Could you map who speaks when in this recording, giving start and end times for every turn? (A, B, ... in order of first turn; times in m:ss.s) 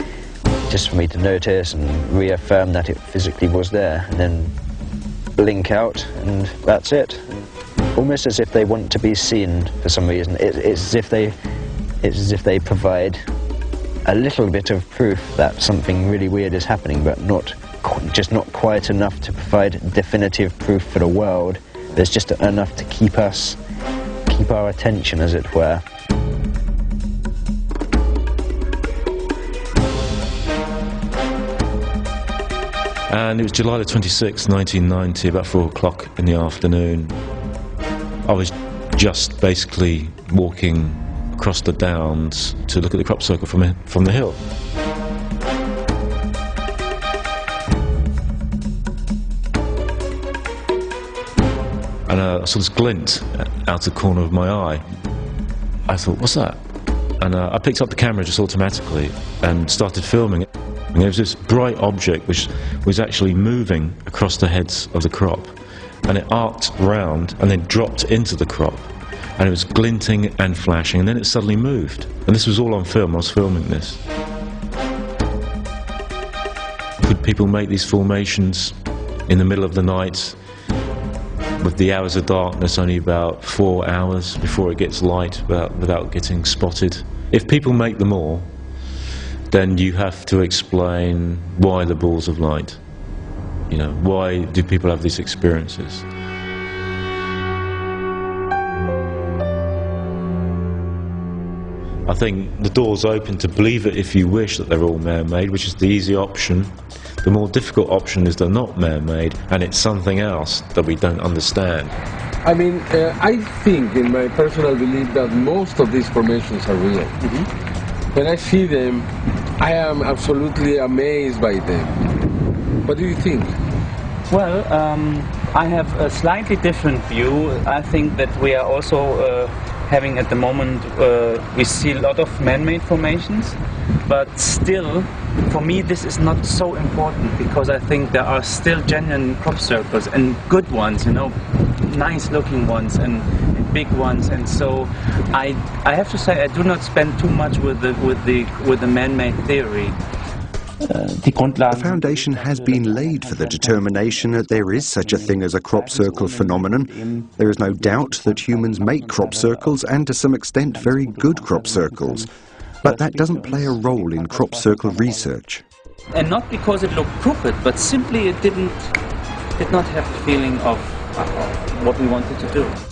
0:00.7-0:04.5 A
0:05.4-0:07.2 A
0:08.0-0:11.3 A
0:12.0-0:13.2 A
0:14.1-0:23.6 A
0:24.3-0:25.8 A
0:33.1-0:37.2 B
0:38.3-0:44.4 B
0:52.1-0:54.8 B
0:55.9-0:56.6 B
0:57.2-1:05.5 B
1:06.0-1:14.0 B
1:17.0-1:18.8 B
1:19.3-1:20.4 B
1:21.6-1:28.5 B
1:29.5-1:32.8 B
1:33.7-1:36.0 B
1:42.1-1:51.9 B
1:52.4-1:57.2 C
1:58.1-2:02.0 C
2:02.8-2:03.5 C
2:04.3-2:30.0 D
2:30.8-2:40.0 D
2:31.7-2:42.3 E
2:40.7-2:42.3 D
2:42.8-2:45.4 D
2:42.8-2:45.6 E
2:46.1-2:48.9 D
2:49.6-2:52.8 D